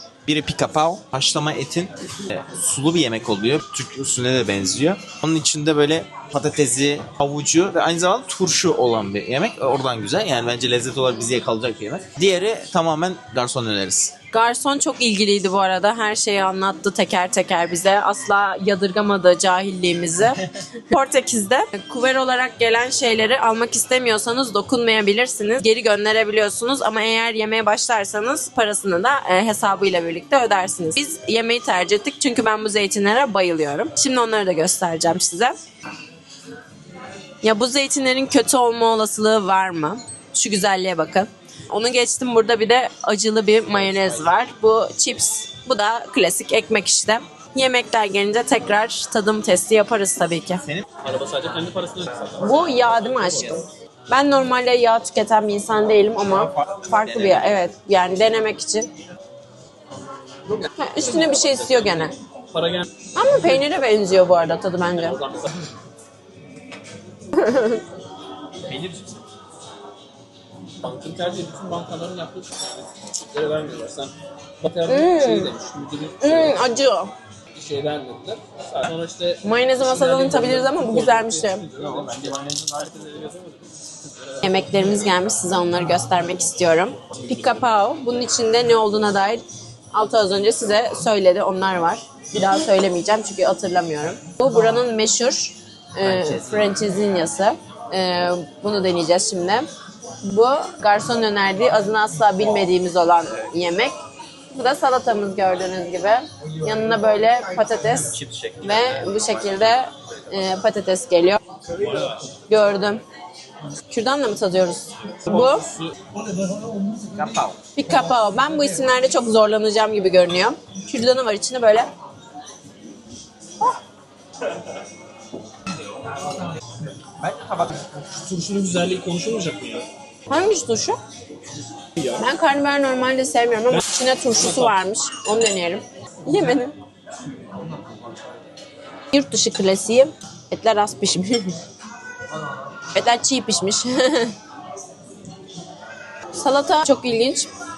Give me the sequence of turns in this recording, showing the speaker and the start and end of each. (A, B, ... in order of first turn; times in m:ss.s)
0:00.2-0:14.2 A
0:14.3-0:35.6 B
0:37.4-0:50.6 B
0:43.7-0:44.2 A
0:51.0-0:53.6 C
0:52.4-0:58.9 B
0:57.0-0:57.7 A
1:00.7-1:02.2 B
1:01.0-1:03.0 C
1:03.1-1:05.2 B
1:04.9-1:05.7 C
1:07.3-1:07.8 B
1:08.6-1:09.2 C
1:10.8-1:16.6 C
1:14.9-1:15.5 B
1:16.2-1:17.1 B
1:17.5-1:23.6 C
1:19.4-1:21.7 B
1:22.0-1:22.4 A
1:24.4-1:39.7 B
1:36.0-1:36.7 A
1:40.2-1:44.0 B
1:44.5-1:51.4 B
1:48.1-1:49.0 A
1:51.8-1:52.2 C
1:52.5-1:53.0 B
1:53.9-1:55.7 B
1:55.3-1:55.9 C
1:57.1-1:57.6 A
1:57.8-2:01.9 B
2:07.2-2:07.8 A
2:08.0-2:09.9 C
2:10.3-2:11.0 B
2:12.0-2:12.2 C
2:12.1-2:16.7 B
2:14.4-2:14.7 C
2:19.1-2:21.6 B
2:22.9-2:24.4 B
2:26.3-2:27.5 B